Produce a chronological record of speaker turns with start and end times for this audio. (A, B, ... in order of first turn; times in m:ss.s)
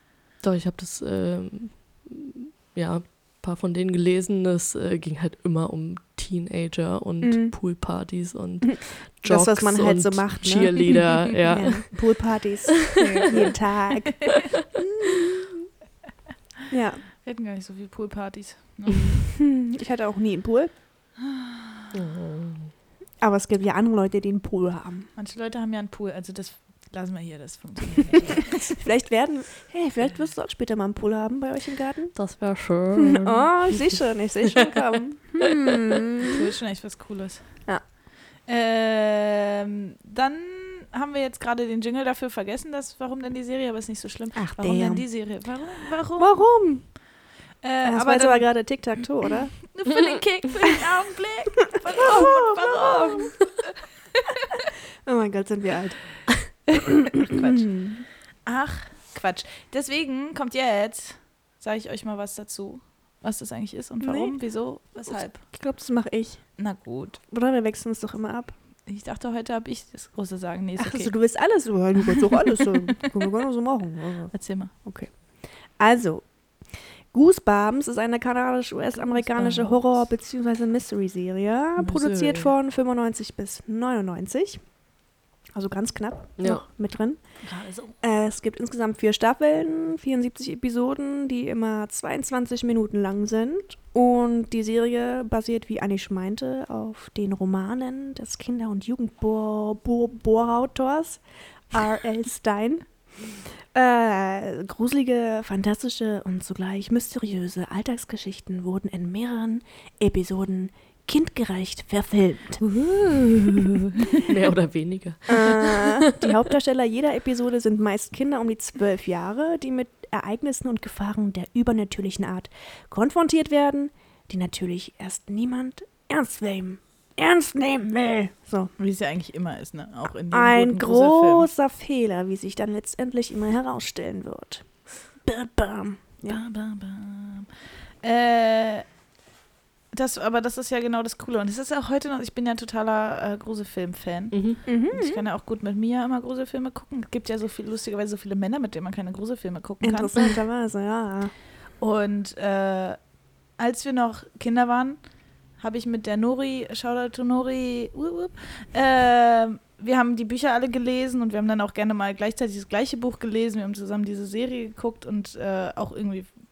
0:00.4-0:12.2 A
0:07.2-0:07.6 B
0:08.6-0:15.7 B
0:12.9-0:13.2 A
0:13.0-0:13.5 C
0:16.7-0:17.0 B
0:17.2-0:19.3 C
0:19.3-0:20.7 B
0:21.2-0:21.9 C
0:21.9-0:22.7 A
0:23.2-0:25.1 B
0:25.2-0:28.7 C
0:28.5-0:32.2 B
0:32.1-0:34.7 A
0:32.9-0:36.4 B
0:36.3-0:37.4 C
0:38.5-0:46.3 C
0:44.3-0:45.1 B
0:46.2-0:46.9 B
0:47.6-0:48.5 C
0:47.8-0:49.6 B
0:49.7-0:53.4 C
0:52.0-0:53.3 B
0:54.1-0:54.6 C
0:55.0-0:56.2 B
0:56.7-0:57.6 C
0:57.1-0:58.0 B
0:58.4-1:05.4 C
1:04.0-1:04.4 B
1:05.4-1:06.5 B
1:06.6-1:07.2 C
1:07.3-1:08.5 B
1:08.8-1:11.1 C
1:10.8-1:15.2 B
1:12.3-1:12.7 C
1:14.3-1:14.7 C
1:15.8-1:16.3 B
1:17.1-1:24.6 B
1:18.9-1:20.0 C
1:21.8-1:22.5 C
1:25.5-1:27.2 B
1:26.4-1:26.6 A
1:27.4-1:27.9 C
1:28.0-1:42.8 B
1:43.7-1:52.6 B
1:54.2-1:56.3 A
1:55.3-2:08.7 B
2:08.8-2:11.5 C
2:10.3-2:16.4 B
2:16.3-2:17.5 C
2:18.0-2:18.8 C
2:19.9-2:30.4 C
2:24.3-2:24.6 A
2:24.6-2:25.2 B
2:29.8-2:31.3 B
2:31.8-2:33.0 C
2:33.6-2:35.0 C
2:35.6-2:46.3 C